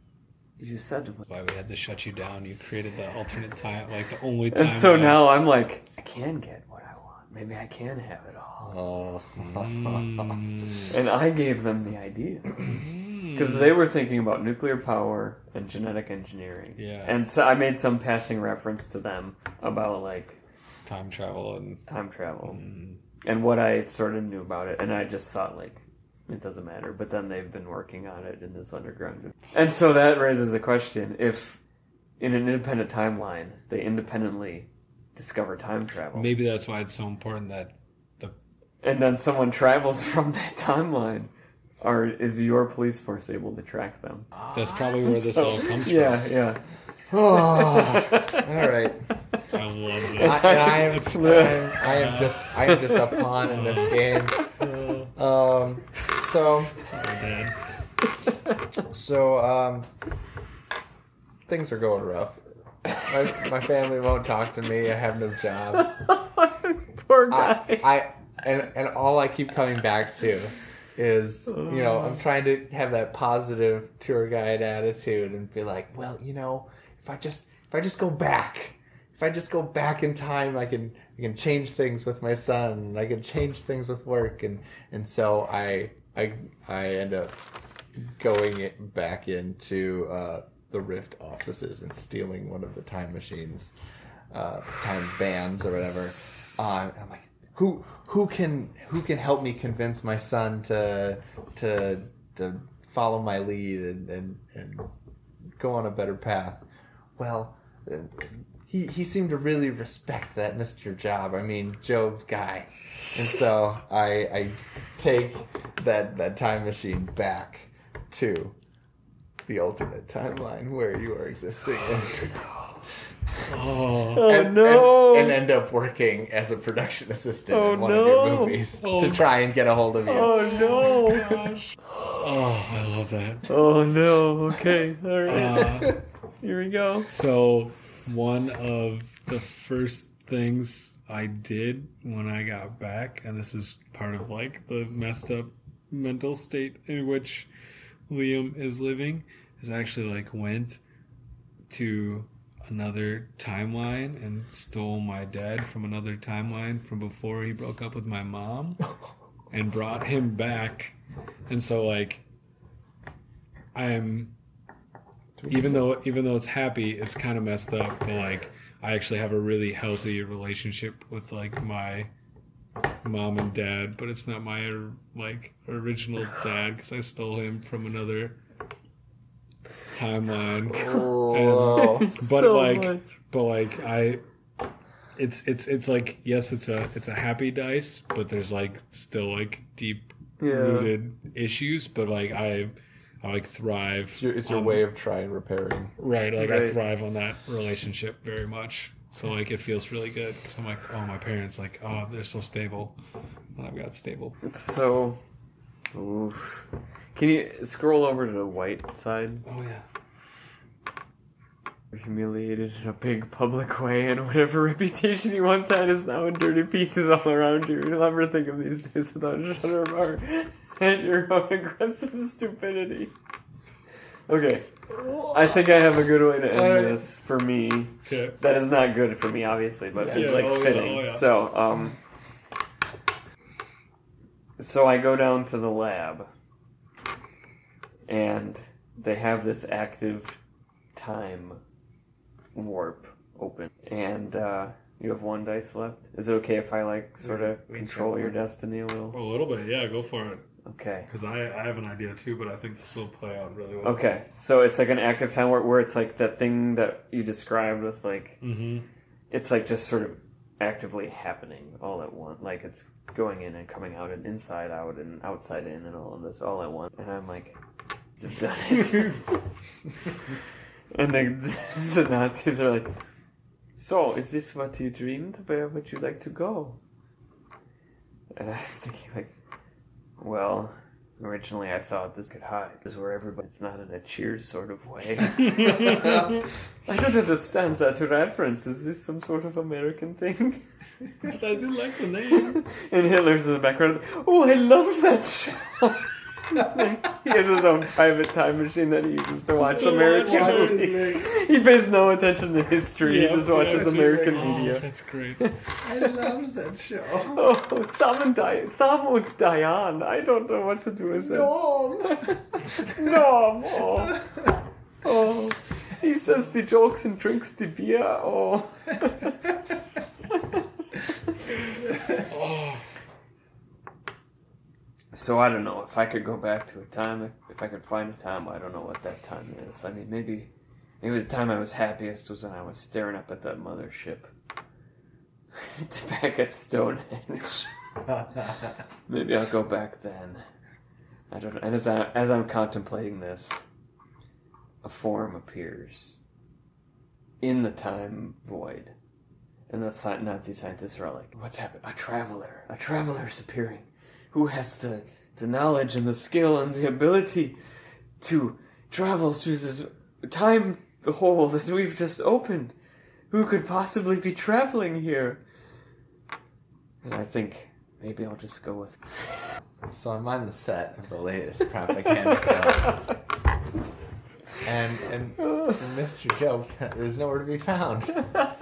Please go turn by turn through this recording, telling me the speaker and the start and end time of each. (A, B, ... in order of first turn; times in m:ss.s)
0:00.6-0:01.2 A
0:01.2-0:05.3 B
0:04.5-0:08.8 A
0:08.6-0:10.4 C
0:09.4-0:10.9 B
0:10.9-0:12.6 A
0:12.6-0:13.8 B
0:13.3-0:20.4 A
0:16.8-0:17.2 B
0:20.8-0:21.8 B
0:21.9-0:22.6 A
0:22.4-0:23.0 B
0:23.2-0:31.6 A
0:32.2-0:36.3 A
0:36.1-0:38.3 B
0:38.8-0:44.3 A
0:44.4-0:45.0 C
0:44.5-0:46.2 B
0:45.0-0:46.6 A
0:47.1-0:49.1 C
0:47.3-0:48.5 A
0:49.4-0:52.6 B
0:50.1-0:51.8 A
0:50.2-0:54.4 C
0:52.7-0:53.3 A
0:53.4-0:55.1 B
0:54.4-0:54.9 A
0:55.1-0:56.8 C
0:56.8-0:57.5 B
0:58.9-0:59.9 C
1:01.5-1:02.4 C
1:02.9-1:06.0 C
1:05.8-1:07.9 A
1:07.3-1:33.7 C
1:11.5-1:12.0 A
1:34.3-1:44.9 C
1:45.6-1:46.6 C
1:47.2-1:58.6 C
1:59.4-2:02.4 C
2:03.5-2:04.3 B
2:04.1-2:05.4 A
2:04.2-2:10.5 C
2:07.5-2:08.6 A
2:08.8-2:09.3 B
2:10.0-2:11.4 A
2:10.4-2:13.5 B
2:13.5-2:17.1 A
2:15.2-2:16.0 B
2:17.1-2:27.5 B
2:28.1-2:30.8 B
2:31.7-2:38.8 B
2:39.5-2:41.0 B
2:41.5-2:42.2 B
2:43.7-2:44.3 B
2:45.4-2:45.8 C
2:45.5-2:52.1 B
2:53.0-2:58.4 B
2:59.9-3:04.2 B
3:00.7-3:02.1 C
3:01.7-3:03.1 A
3:05.2-3:14.8 B
3:10.4-3:10.9 A
3:14.1-3:15.9 C
3:16.0-3:23.0 B
3:16.4-3:16.8 A
3:23.6-3:24.4 B
3:24.4-3:25.2 A
3:25.9-3:29.4 A
3:29.4-3:29.8 B
3:31.9-3:43.1 A
3:44.3-3:44.7 A
3:44.9-3:45.6 C
3:45.3-3:52.0 A
3:46.5-3:47.0 C
3:48.0-3:48.4 B
3:50.0-3:50.4 C
3:50.1-3:51.3 B
3:54.6-3:56.3 A
3:58.1-4:00.4 A
4:00.9-4:01.6 A
4:02.5-4:09.2 A
4:07.2-4:08.3 C
4:09.1-4:10.5 B
4:10.6-4:11.1 A
4:11.1-4:14.0 B
4:13.8-4:18.4 A
4:18.4-4:18.9 B
4:19.3-4:27.6 A
4:28.2-4:29.4 A
4:30.9-4:32.9 A
4:33.8-4:36.8 A
4:38.3-4:39.3 A
4:40.2-4:50.6 A
4:51.2-4:52.6 B
4:52.3-5:04.8 A
4:59.6-5:01.0 B
4:59.7-5:01.3 C
5:03.0-5:05.5 B
5:03.7-5:04.5 C
5:05.8-5:07.4 C
5:07.3-5:14.2 A
5:11.1-5:12.9 C
5:15.0-5:19.4 A
5:22.2-5:22.8 B
5:25.1-5:34.3 A
5:35.5-5:37.7 A
5:38.0-5:38.8 C
5:39.1-5:40.4 A
5:41.3-5:43.6 A
5:44.8-5:46.2 A
5:47.4-5:48.9 A
5:49.7-5:57.6 A
5:58.2-6:02.7 A
6:03.3-6:05.4 A
6:07.0-6:09.0 A
6:09.9-6:13.0 C
6:14.6-6:18.4 C